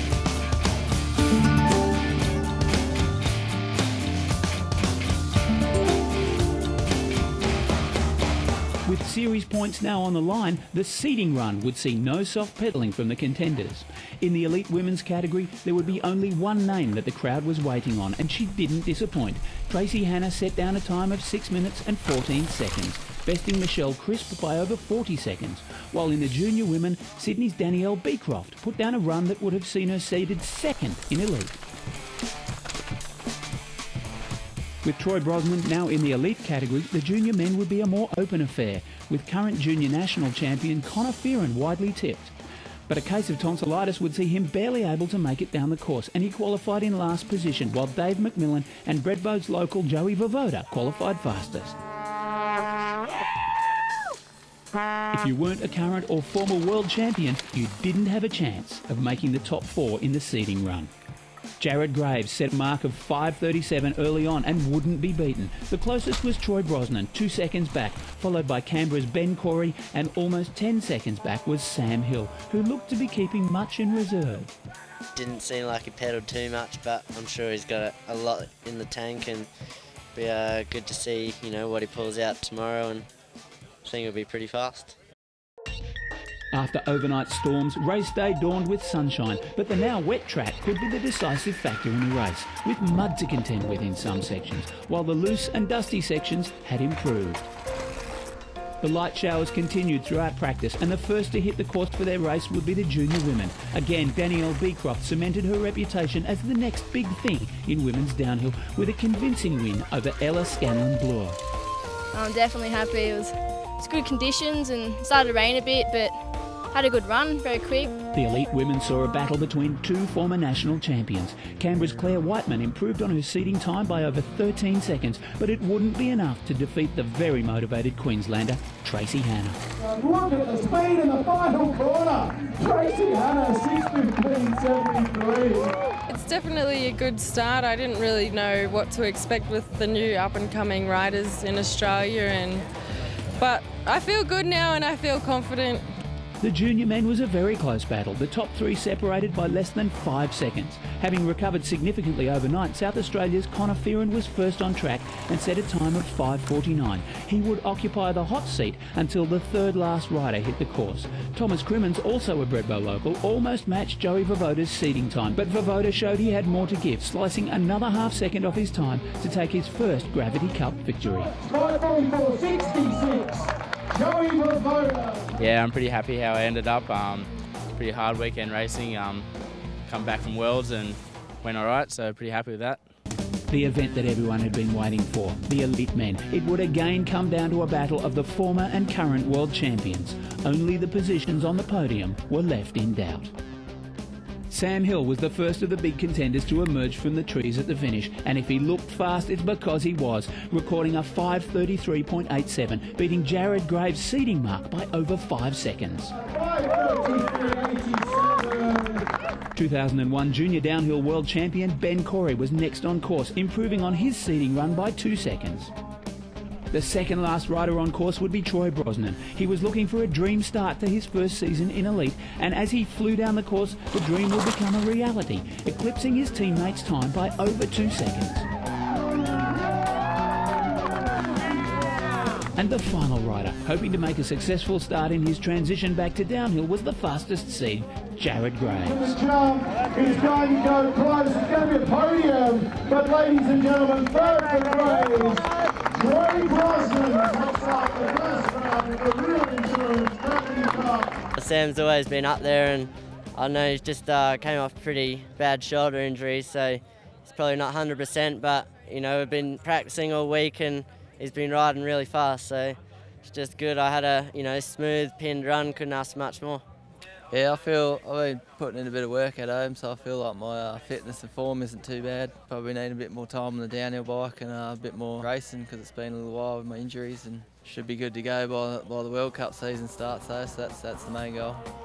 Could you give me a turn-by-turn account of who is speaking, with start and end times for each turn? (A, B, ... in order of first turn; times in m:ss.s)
0:08.8-0:31.6 A
0:34.8-0:42.3 A
0:42.9-0:51.8 A
0:55.1-1:00.9 A
1:01.6-1:14.5 A
1:15.1-1:19.5 B
1:20.1-1:23.1 B
1:23.8-1:25.0 B
1:26.5-1:37.5 A
1:38.8-1:51.4 A
1:52.1-1:56.2 C
1:56.7-1:57.9 C
1:58.1-2:09.6 A
2:09.8-2:15.7 D
2:16.1-2:22.6 E
2:23.4-2:25.8 E
2:26.4-2:51.3 A
2:51.4-2:55.2 D
2:55.4-2:59.3 F
2:59.8-3:02.8 F
3:03.5-3:13.3 A
3:14.5-3:26.1 A
3:26.2-3:29.0 D
3:29.5-3:35.7 A
3:36.7-3:48.5 A
3:52.6-3:59.2 A
3:58.8-4:05.4 D
4:06.0-4:11.1 D
4:11.4-4:26.6 B
4:27.3-4:41.6 G